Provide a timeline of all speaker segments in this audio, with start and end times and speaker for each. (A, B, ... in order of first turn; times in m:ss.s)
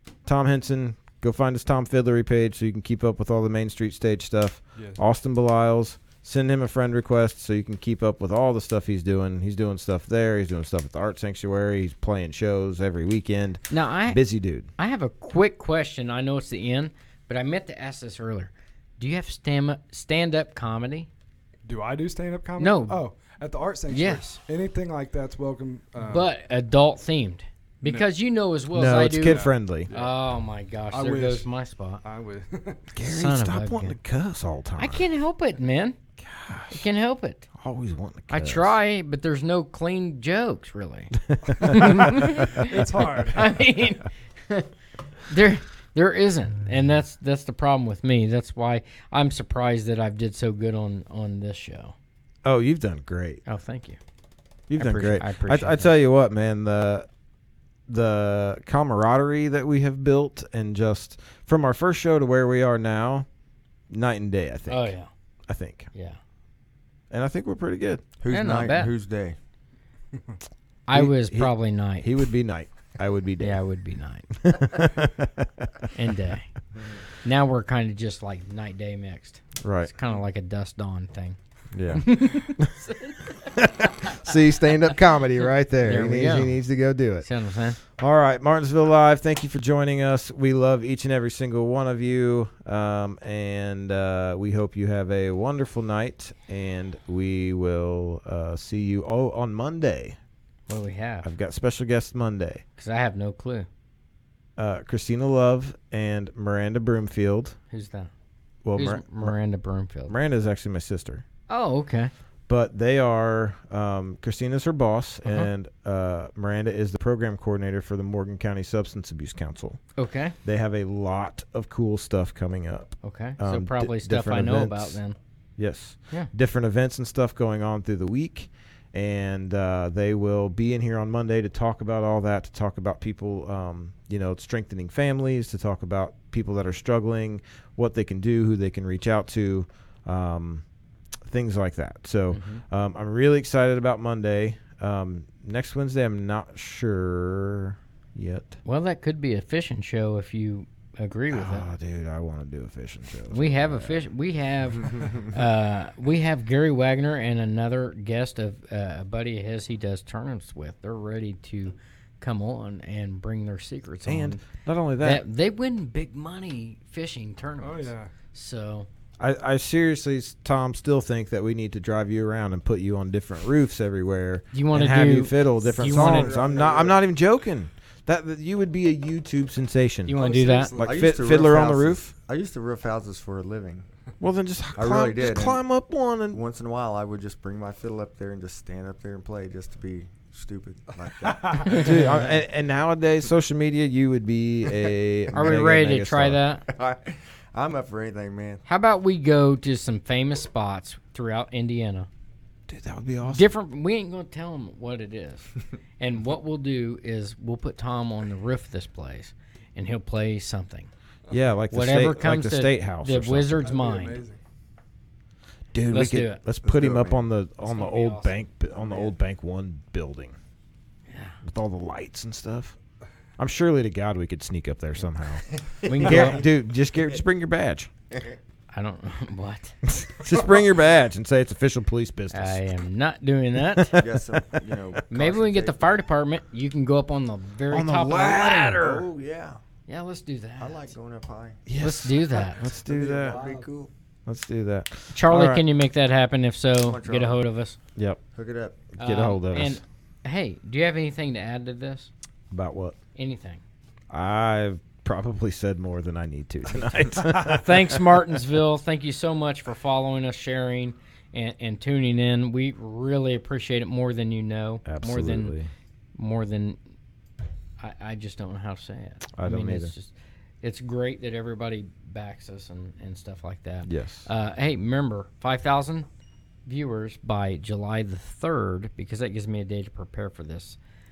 0:00.2-0:14.7 A
0:04.8-0:05.0 B
0:13.7-0:14.2 C
0:14.8-0:21.1 C
0:21.6-0:26.3 B
0:22.6-0:23.0 C
0:23.9-0:24.4 C
0:26.0-0:32.0 C
0:28.7-0:29.9 A
0:29.2-0:30.2 B
0:30.9-0:31.4 B
0:32.0-0:32.9 B
0:32.9-0:35.0 A
0:33.0-0:33.9 C
0:34.8-0:36.0 C
0:36.2-0:36.8 A
0:36.7-0:37.5 C
0:37.6-0:38.8 A
0:38.3-0:44.7 C
0:41.3-0:42.5 A
0:41.8-0:43.5 B
0:45.2-0:51.9 C
0:52.4-0:53.4 A
0:53.4-0:54.0 C
0:54.7-0:57.1 A
0:54.8-0:55.9 C
0:57.9-1:03.3 A
1:03.9-1:04.9 A
1:04.7-1:05.1 C
1:05.5-1:05.9 A
1:07.1-1:08.0 A
1:08.2-1:09.4 D
1:08.3-1:08.9 C
1:10.9-1:12.1 C
1:10.9-1:13.6 A
1:13.4-1:14.3 C
1:14.4-1:15.8 A
1:15.9-1:16.5 C
1:17.2-1:21.4 C
1:19.6-1:19.9 A
1:21.7-1:22.8 A
1:21.9-1:23.4 C
1:23.4-1:27.3 A
1:25.8-1:26.6 C
1:27.2-1:27.8 C
1:27.8-1:40.2 A
1:40.7-1:41.3 C
1:41.2-1:42.6 A
1:42.8-1:43.7 C
1:44.6-1:47.6 A
1:47.7-1:48.1 C
1:48.6-1:49.3 A
1:48.8-1:50.1 C
1:50.1-1:51.2 A
1:51.5-1:52.1 C
1:52.5-1:59.8 A
1:55.2-1:55.5 C
2:00.0-2:00.3 C
2:00.4-2:05.0 A
2:03.0-2:05.2 C
2:05.6-2:20.6 A
2:21.2-2:28.6 A
2:22.3-2:22.6 C
2:28.6-2:31.7 C
2:31.3-2:34.1 A
2:33.3-2:44.4 C
2:44.0-2:45.2 A
2:45.0-2:48.9 C
2:47.6-2:48.1 B
2:49.2-3:02.0 A
2:54.5-2:56.4 C
2:55.8-2:57.0 D
3:00.0-3:00.8 C
3:00.2-3:01.3 B
3:00.8-3:03.8 D
3:04.2-3:06.4 A
3:04.7-3:05.6 D
3:06.3-3:12.0 D
3:11.2-3:11.6 B
3:11.6-3:12.4 C
3:11.7-3:16.4 A
3:15.3-3:16.7 C
3:16.7-3:18.6 D
3:18.6-3:22.1 C
3:22.7-3:23.5 A
3:23.2-3:25.5 C
3:26.0-3:30.9 C
3:31.3-3:33.6 A
3:31.7-3:34.2 C
3:33.5-3:34.4 B
3:35.7-3:40.4 A
3:35.9-3:36.4 C
3:36.6-3:37.2 D
3:37.6-3:38.4 C
3:38.8-3:39.1 D
3:41.1-3:41.4 C
3:41.4-3:42.8 A
3:43.4-3:47.9 A
3:45.8-3:46.5 D
3:45.8-3:46.4 C
3:48.7-3:49.8 C
3:49.8-3:52.6 A
3:52.3-3:53.9 C
3:53.6-3:54.1 A
3:53.9-3:56.0 D
3:55.1-3:58.8 C
3:57.7-3:59.1 A
3:58.7-3:59.6 D
3:59.9-4:00.9 C
4:00.6-4:01.6 D
4:01.6-4:03.4 A
4:01.8-4:02.6 C
4:02.7-4:03.9 D
4:03.2-4:03.7 B
4:04.2-4:05.6 A
4:05.1-4:07.8 C
4:06.7-4:07.4 D
4:08.3-4:08.9 D
4:08.9-4:09.8 A
4:09.0-4:12.1 C
4:12.5-4:13.0 A
4:13.1-4:13.6 C
4:14.1-4:18.3 A
4:17.4-4:25.5 C
4:24.8-4:25.7 A
4:26.2-4:26.8 C
4:27.8-4:36.1 C
4:29.4-4:29.9 A
4:33.8-4:34.3 A
4:36.6-4:40.8 C